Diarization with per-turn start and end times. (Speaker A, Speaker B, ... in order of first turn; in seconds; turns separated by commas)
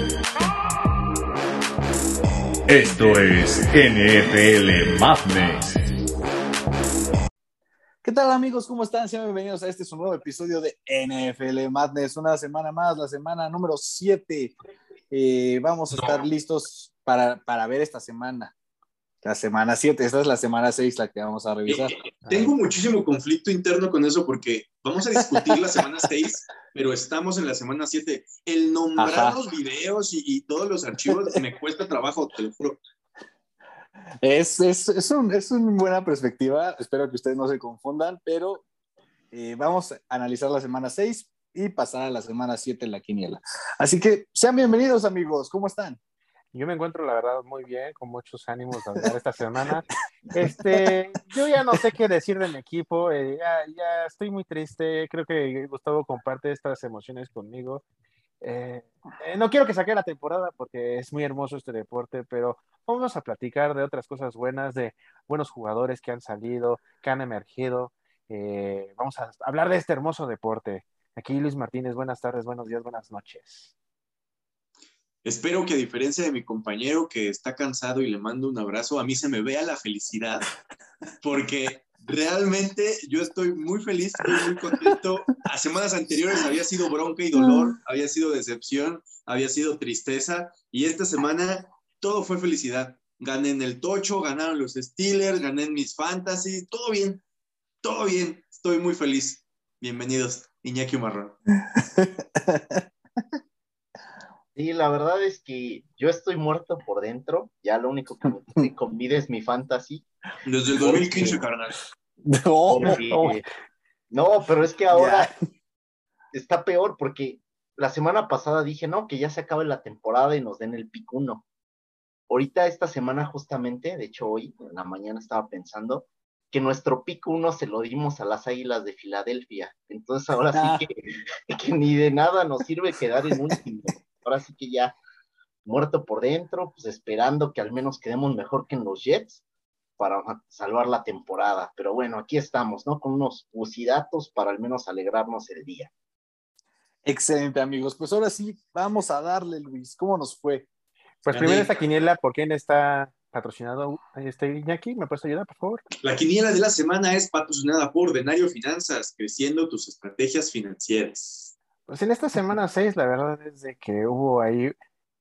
Speaker A: 2.7-5.7, Speaker B: 8.0-14.6, Speaker B: 15.1-18.5, Speaker B: 19.2-22.0, Speaker C: 21.7-32.8, Speaker D: 22.3-22.5, Speaker B: 25.2-25.6, Speaker B: 29.0-29.4, Speaker B: 31.1-31.4, Speaker B: 34.2-38.6, Speaker B: 39.3-46.0, Speaker D: 46.5-57.8, Speaker B: 50.5-50.9, Speaker D: 58.4-73.7, Speaker C: 75.2-80.5, Speaker C: 81.2-97.2, Speaker B: 84.4-85.0, Speaker B: 87.3-87.8, Speaker C: 97.8-101.4, Speaker B: 101.5-102.8, Speaker E: 104.6-110.0, Speaker C: 110.5-111.8, Speaker B: 110.8-111.4, Speaker E: 111.0-111.4, Speaker B: 112.2-113.4, Speaker E: 112.7-113.4, Speaker E: 114.1-115.3, Speaker B: 114.9-115.3, Speaker E: 116.3-121.5, Speaker E: 122.3-135.0, Speaker B: 130.5-130.9, Speaker B: 133.2-133.6, Speaker E: 135.7-139.4, Speaker E: 140.0-145.9, Speaker B: 147.1-150.7, Speaker D: 151.2-155.8, Speaker C: 151.3-151.7, Speaker C: 156.0-161.5, Speaker D: 161.9-164.7